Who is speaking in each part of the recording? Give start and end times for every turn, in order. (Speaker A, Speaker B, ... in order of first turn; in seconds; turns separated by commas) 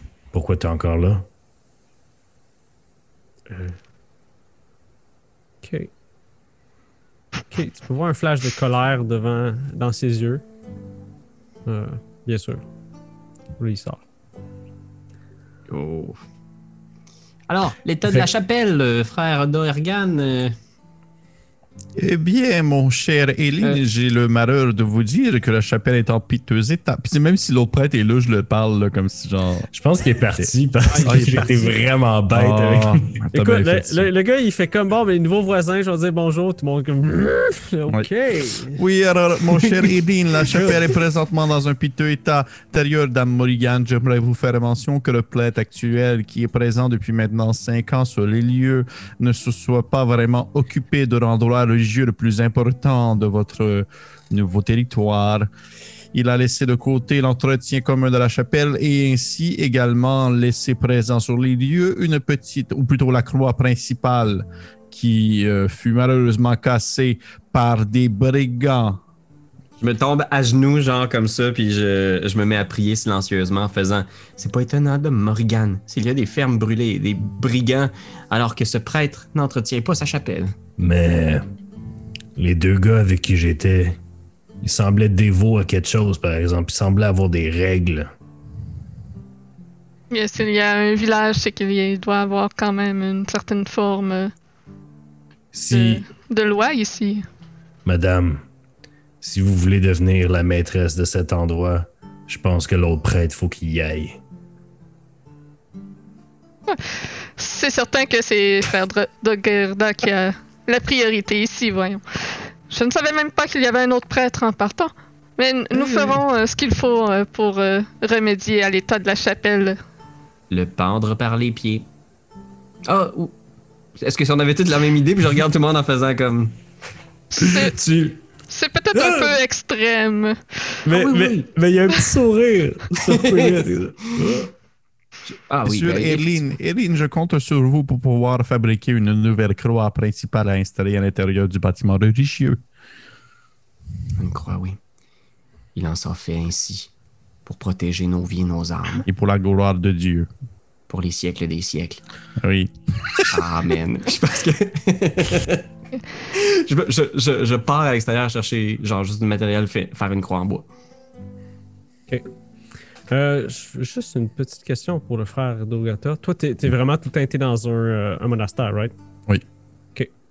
Speaker A: 0.3-1.3, Speaker B: 5.6-5.9, Speaker B: 7.5-10.4, Speaker B: 11.7-12.6, Speaker B: 13.6-14.0, Speaker C: 15.7-16.2, Speaker C: 17.5-20.6, Speaker D: 22.0-29.7, Speaker A: 29.7-33.2, Speaker B: 30.9-31.8, Speaker D: 31.0-31.6, Speaker D: 32.3-34.0, Speaker B: 33.3-38.8, Speaker D: 38.7-55.5, Speaker D: 56.1-69.0, Speaker C: 69.8-80.5, Speaker A: 80.8-81.5, Speaker A: 82.3-84.0, Speaker A: 84.6-88.1, Speaker E: 90.1-94.3, Speaker A: 95.5-96.0, Speaker E: 95.7-97.2, Speaker A: 97.8-98.4, Speaker A: 99.2-104.2, Speaker E: 106.7-119.8, Speaker C: 115.9-116.1, Speaker C: 120.5-121.9, Speaker C: 122.8-123.3, Speaker C: 124.0-126.5, Speaker E: 127.3-127.8, Speaker A: 127.3-128.2, Speaker E: 128.5-130.8, Speaker A: 128.9-129.3, Speaker A: 130.8-134.5, Speaker C: 130.9-131.5, Speaker C: 133.0-134.4, Speaker C: 135.3-136.4, Speaker D: 135.6-142.6, Speaker C: 144.2-144.8, Speaker C: 145.7-146.9, Speaker C: 147.4-149.0, Speaker D: 149.0-150.3, Speaker C: 150.9-152.0, Speaker D: 152.4-153.4, Speaker C: 153.2-155.6, Speaker C: 156.3-160.7, Speaker B: 163.1-168.9